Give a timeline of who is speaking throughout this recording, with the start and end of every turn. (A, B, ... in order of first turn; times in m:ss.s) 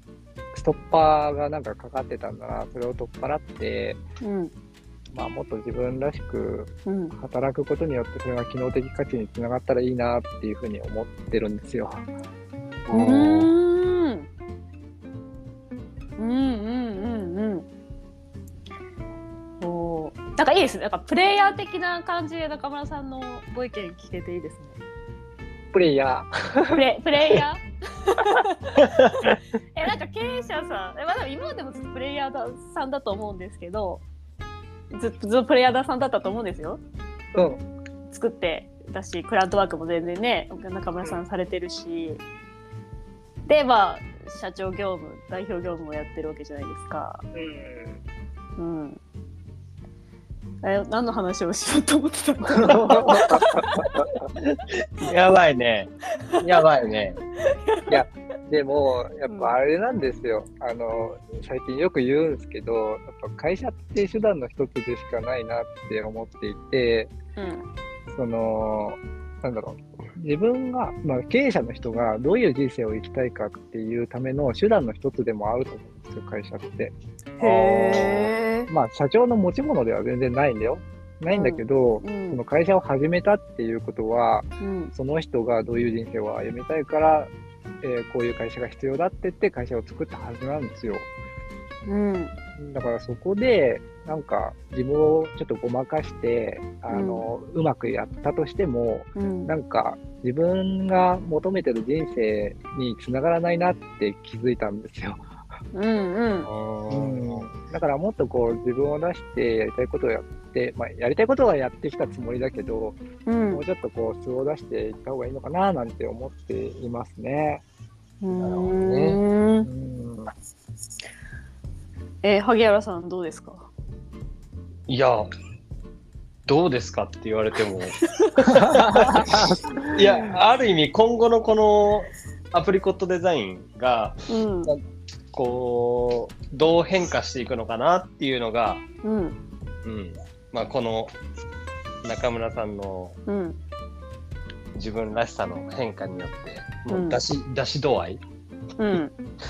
0:00.5-0:04.0 A
0:04.2-0:04.5 B
0:05.1-0:12.1 A
0:06.8-0:07.1 B
0:12.9-0:13.5 C
0:12.9-0:14.3 B
0:16.2-0:17.6 B
0:19.6-0:24.8 B
0:25.7-0:27.4 A
0:26.7-0:34.0 B
0:34.9-0:36.8 B
0:37.3-0:37.6 A
0:38.1-0:42.2 B
0:43.4-0:47.2 B
0:47.3-0:48.0 A
0:48.6-0:49.0 B
0:50.6-0:53.3 B
0:52.5-0:54.2 A
0:55.0-0:57.2 C
0:57.4-0:58.0 B
0:57.9-1:07.1 A
0:59.3-0:59.5 B
1:07.4-1:07.6 B
1:08.1-1:27.3 A
1:17.4-1:18.7 B
1:21.3-1:22.4 B
1:24.6-1:24.9 B
1:27.8-1:31.1 A
1:31.8-1:32.3 B
1:32.6-1:45.2 A
1:36.9-1:37.2 B
1:39.2-1:39.5 B
1:45.7-1:46.5 B
1:46.4-1:47.5 C
1:46.9-1:53.0 A
1:53.3-1:53.6 B
1:53.5-1:57.6 A
1:58.2-1:59.7 B
1:58.3-1:59.2 C
1:59.6-2:00.3 A
2:02.2-2:03.7 B
2:04.9-2:05.2 C
2:06.5-2:09.3 C
2:08.6-2:09.9 A
2:09.9-2:14.8 C
2:14.3-2:14.7 B
2:15.3-2:18.8 C
2:19.0-2:19.4 B
2:19.8-2:21.1 C
2:22.0-2:23.2 C
2:23.3-2:23.6 B
2:24.7-2:28.2 C
2:26.9-2:27.2 B
2:28.8-2:29.1 B